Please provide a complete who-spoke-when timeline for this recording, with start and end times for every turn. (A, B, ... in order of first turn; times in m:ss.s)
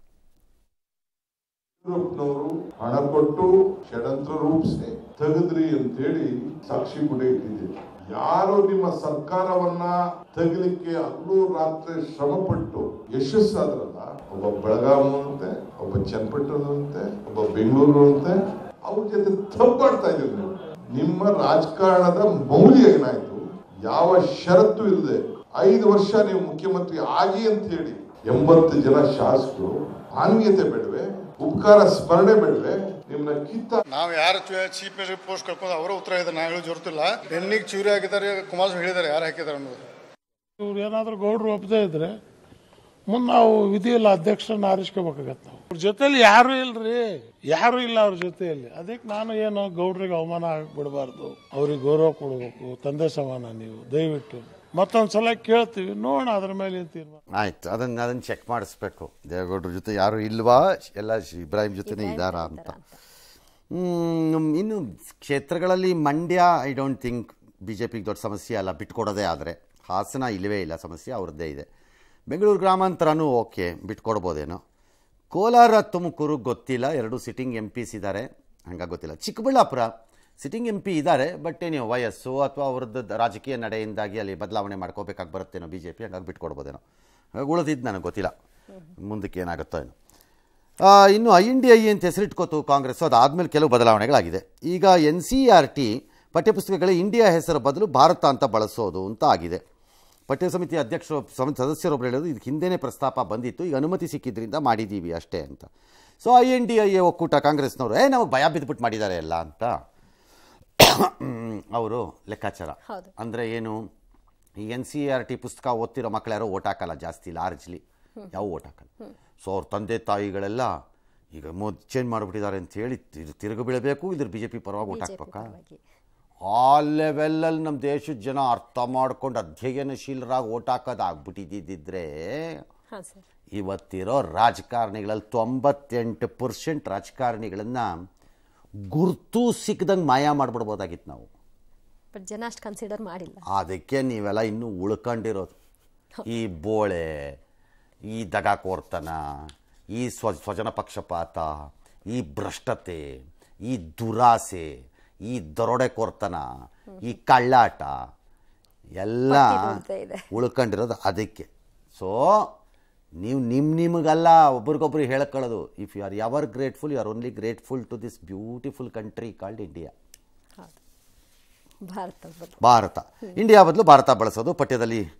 0:01.8-0:33.8 A
0:33.9-0:39.8 B
0:40.6-0:42.2 C
0:43.1-0:57.2 C
0:57.3-1:02.7 D
1:01.9-1:03.0 E
1:03.7-1:11.6 D
1:12.3-1:14.6 D
1:15.3-1:19.9 D
1:20.4-1:26.8 D
1:27.4-1:28.3 D
1:29.0-1:29.9 D
1:30.8-1:39.6 D
1:40.3-1:45.7 D
1:46.2-1:49.8 D
1:50.8-1:53.8 D
1:54.6-1:58.9 D
1:59.4-2:00.7 D
2:01.3-2:05.5 D
2:04.9-2:05.8 E
2:06.4-2:12.6 D
2:12.9-2:13.2 E
2:13.5-2:18.0 D
2:18.9-2:21.3 D
2:22.1-2:23.4 E
2:23.5-2:25.5 D
2:26.2-2:27.4 D
2:28.1-2:31.5 D
2:32.1-2:34.7 D
2:35.2-2:36.4 D
2:37.0-2:37.9 D
2:39.0-2:39.8 D
2:39.3-2:40.3 E
2:40.3-2:42.5 D
2:43.2-2:49.9 D
2:51.9-2:52.6 E
2:52.6-2:55.0 D